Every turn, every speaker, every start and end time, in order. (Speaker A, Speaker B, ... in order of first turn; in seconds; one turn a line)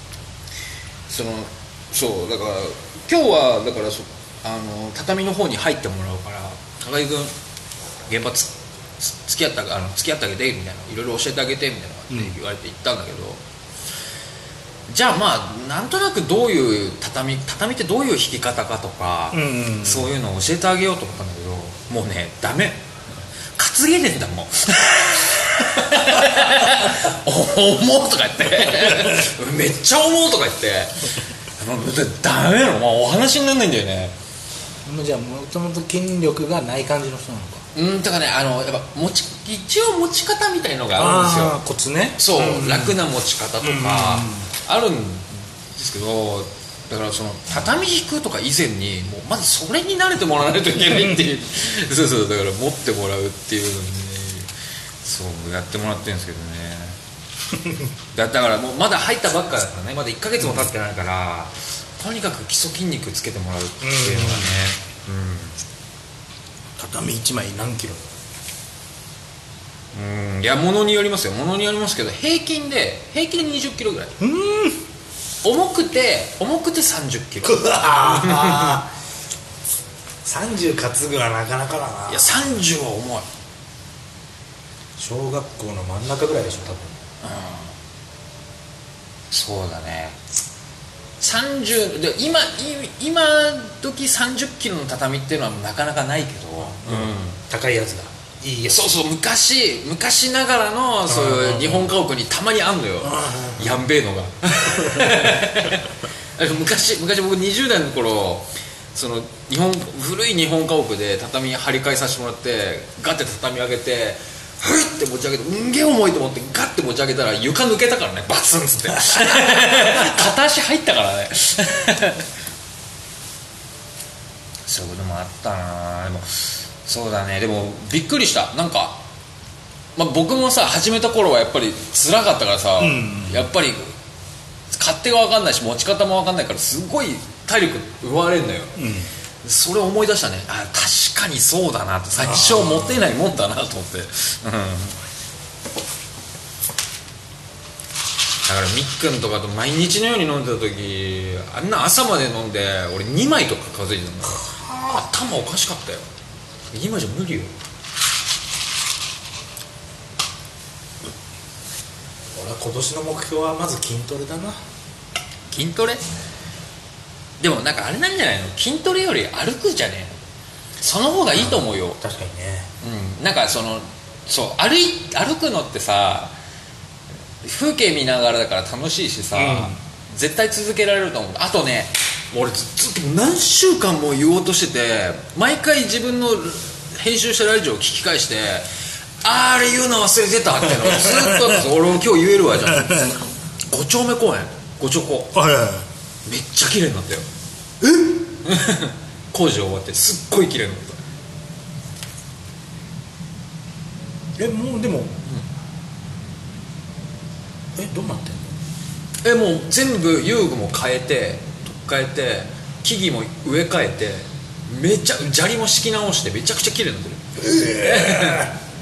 Speaker A: 1.1-7.3
Speaker A: 8.1-13.4
Speaker A: 14.9-22.8
Speaker B: 19.3-20.1
Speaker A: 23.6-34.1
Speaker B: 28.6-29.3
Speaker B: 34.8-37.6
Speaker A: 37.7-41.6
Speaker B: 41.0-43.0
Speaker A: 42.2-54.5
Speaker B: 43.6-44.5
Speaker B: 50.8-51.2
Speaker A: 55.0-57.0
Speaker B: 57.5-57.9
Speaker A: 58.1-65.6
Speaker B: 60.4-60.7
Speaker B: 63.8-64.6
Speaker B: 66.8-68.1
Speaker A: 69.9-74.2
Speaker B: 74.2-74.8
Speaker A: 75.4-78.8
Speaker B: 77.4-78.9
Speaker B: 80.2-82.5
Speaker A: 82.1-83.2
Speaker B: 85.0-87.0
Speaker A: 87.2-87.7
Speaker A: 89.3-90.2
Speaker A: 91.2-97.4
Speaker B: 96.7-98.9
Speaker A: 98.7-122.3
Speaker B: 101.1-101.9
Speaker B: 103.0-103.8
Speaker B: 104.7-105.5
Speaker B: 119.0-120.3
Speaker A: 124.7-129.0
Speaker A: 129.9-133.9
Speaker B: 132.8-133.5
Speaker A: 134.7-138.8
Speaker B: 138.8-139.1
Speaker A: 139.4-145.0
Speaker B: 142.2-143.0
Speaker A: 148.4-156.1
Speaker B: 154.3-155.0
Speaker A: 156.7-157.5
Speaker B: 162.3-164.6
Speaker A: 165.5-166.0
Speaker A: 167.4-170.2
Speaker A: 170.8-172.0
Speaker B: 171.3-172.7
Speaker A: 172.8-176.3
Speaker A: 177.4-188.7
Speaker B: 179.3-179.8
Speaker A: 189.2-195.3
Speaker B: 190.7-191.6
Speaker B: 192.6-193.2
Speaker B: 195.3-195.9
Speaker A: 196.2-197.2
Speaker B: 197.8-198.3
Speaker A: 198.4-201.0
Speaker B: 204.4-205.2
Speaker B: 207.7-208.6
Speaker A: 209.2-218.5
Speaker B: 217.4-218.5